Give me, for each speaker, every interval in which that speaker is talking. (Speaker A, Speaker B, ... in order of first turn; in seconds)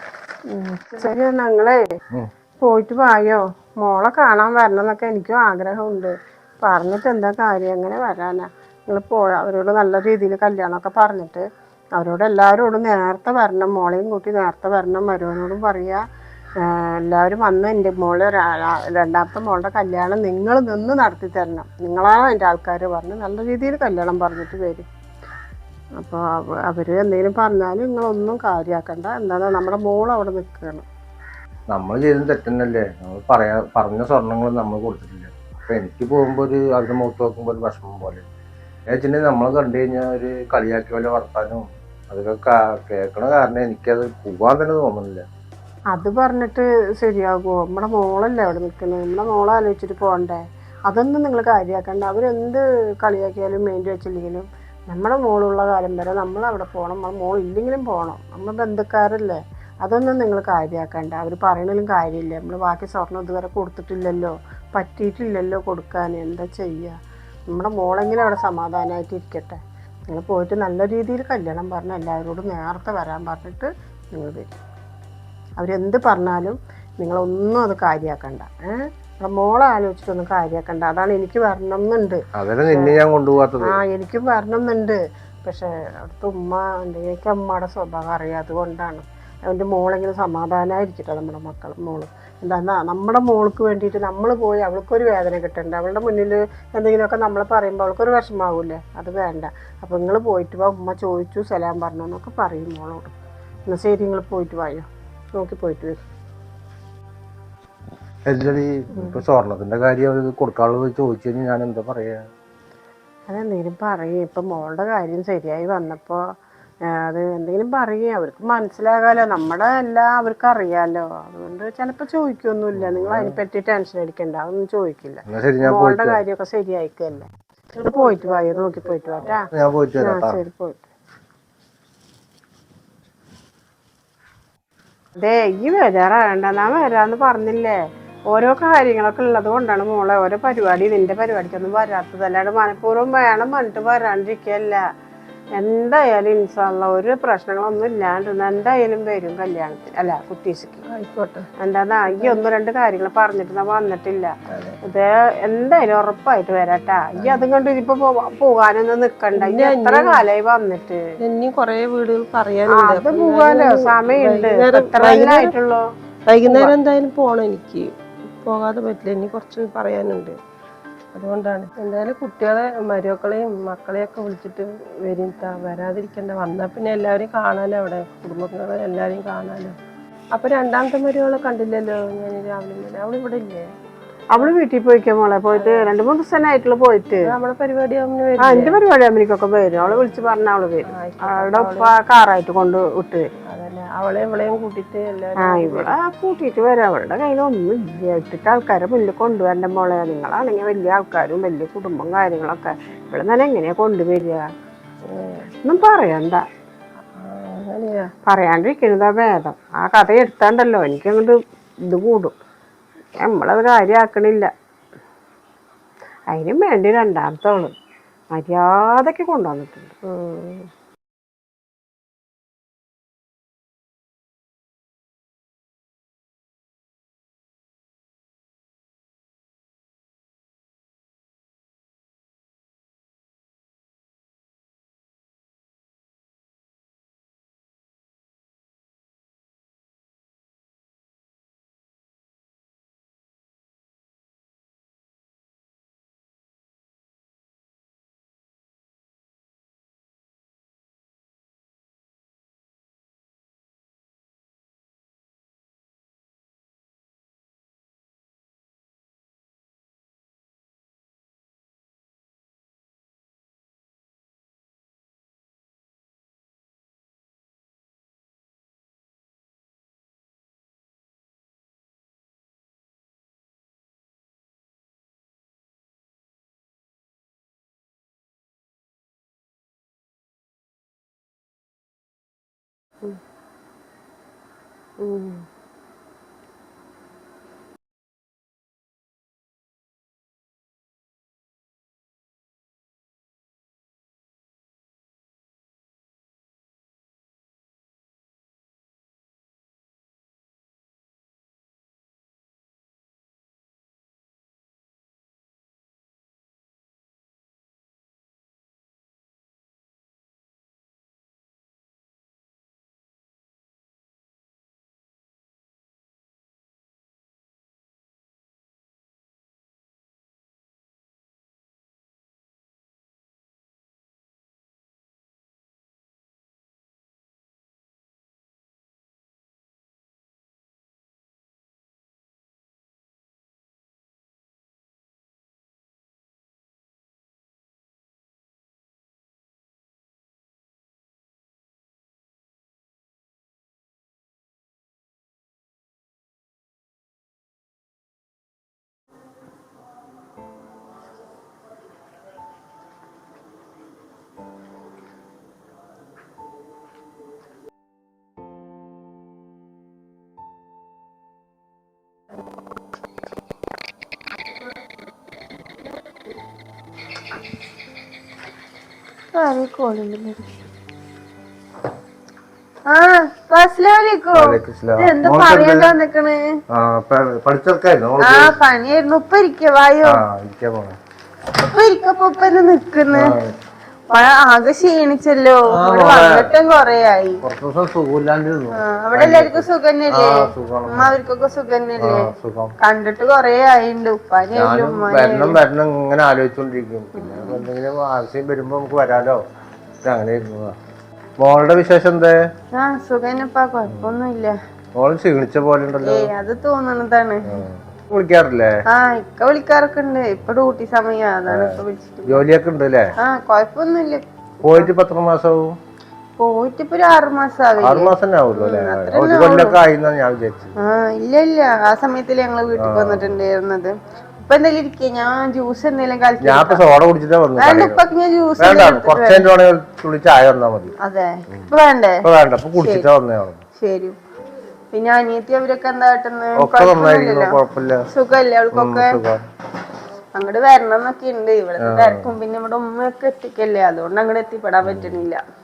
Speaker A: 0.5-1.8, 2.6-16.0, 16.6-24.9, 26.0-30.8, 45.9-67.0, 67.5-74.5, 75.6-83.0, 83.6-103.1, 103.7-106.0, 113.3-116.3, 116.9-127.3, 127.8-129.5, 130.0-130.8, 135.2-137.8, 138.3-144.8, 145.6-150.8, 151.6-154.3, 154.8-161.0, 162.7-165.8, 166.4-166.7, 184.3-187.3, 188.4-193.3, 195.4-204.4, 205.6-206.4, 208.3-211.4, 211.9-212.3, 213.2-214.5, 216.3-217.7, 218.3-220.7, 285.0-285.4
Speaker B: 31.7-38.2, 38.9-45.2, 82.3-83.8, 108.3-112.2, 122.7-123.3, 125.2-126.2, 129.5-130.4, 374.3-375.9, 376.7-378.5, 380.0-380.9, 383.1-383.5, 385.7-386.6, 387.4-391.2, 392.0-392.7, 394.5-399.4, 400.0-400.8, 401.4-402.4, 403.9-404.2, 404.9-406.3, 407.4-408.8, 411.5-413.1, 414.6-415.8, 417.8-420.7, 422.8-423.4, 426.4-428.1, 428.6-430.9, 432.2-433.6, 436.6-438.1, 438.7-439.4, 441.8-442.3, 444.8-445.3
Speaker C: 127.8-129.3, 150.8-151.4, 152.1-152.4, 154.5-154.8, 157.2-157.5, 159.3-160.2, 161.2-165.5, 166.2-170.4, 171.1-179.8, 180.3-183.7, 185.5-185.9, 187.2-188.8, 189.8-190.0, 190.9-191.9, 193.5-195.9, 205.1-205.5, 207.1-208.1
Speaker D: 369.4-370.5, 372.9-376.4, 378.2-380.2, 381.5-383.3, 384.1-387.4, 388.8-392.2, 392.8-395.6, 397.2-397.6, 402.7-404.5, 406.0-407.5, 408.9-412.4, 413.2-414.9, 416.4-419.8, 420.8-423.9, 424.4-426.8, 427.6-429.4, 431.0-432.2, 432.8-433.1, 433.8-434.1, 434.9-437.5, 438.1-439.1, 440.3-445.4